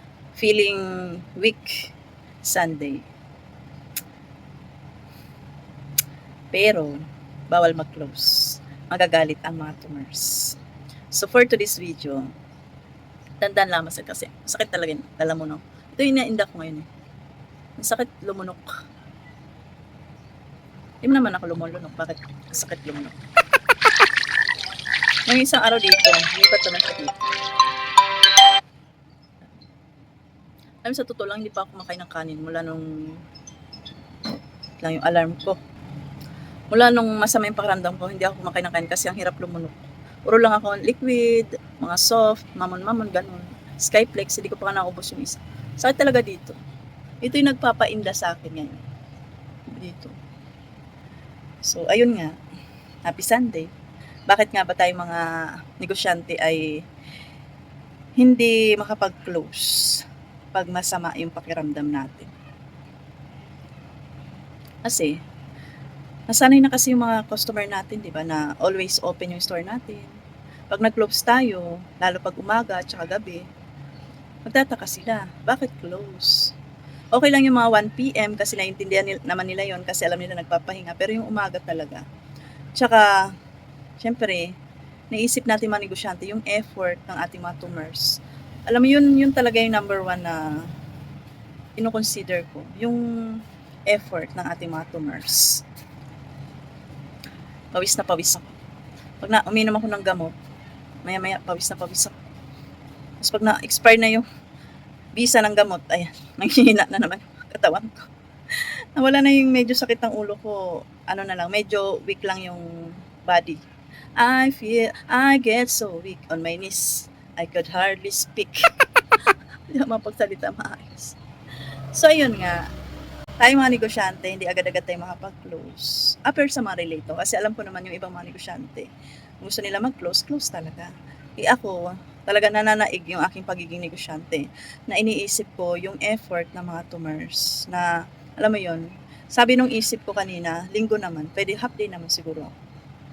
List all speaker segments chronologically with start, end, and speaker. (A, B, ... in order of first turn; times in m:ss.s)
0:00.3-0:03.0 A
0:06.5-0:10.6 A
0:11.1-0:12.3 A
0:13.4-0:16.9 A
0:17.8-0:18.7 A
0:21.0-0:23.1 A
0:25.3-0:27.2 A
0:30.8-0:33.2 A
0:34.8-0:35.6 A
0:36.7-0:46.6 A
0:47.2-0:48.8 A
0:49.7-0:50.1 A
0:51.6-0:52.3 A
0:53.0-0:53.7 A
0:54.3-0:56.8 A
0:58.2-1:02.3 A
1:04.8-1:05.2 A
1:06.3-1:10.1 A
1:10.7-1:13.4 A
1:14.4-1:16.5 A
1:17.1-1:22.0 A
1:22.8-1:23.1 A
1:24.0-1:24.5 A
1:25.1-1:30.6 A
1:31.8-1:35.6 A
1:37.7-1:38.5 A
1:39.2-1:40.3 A
1:41.0-1:42.1 A
1:43.2-1:44.2 A
1:45.1-1:48.0 A
1:48.6-1:53.6 A
1:54.2-1:58.7 A
1:59.7-2:01.2 A
2:01.9-2:02.6 A
2:03.4-2:08.9 A
2:09.4-2:22.5 A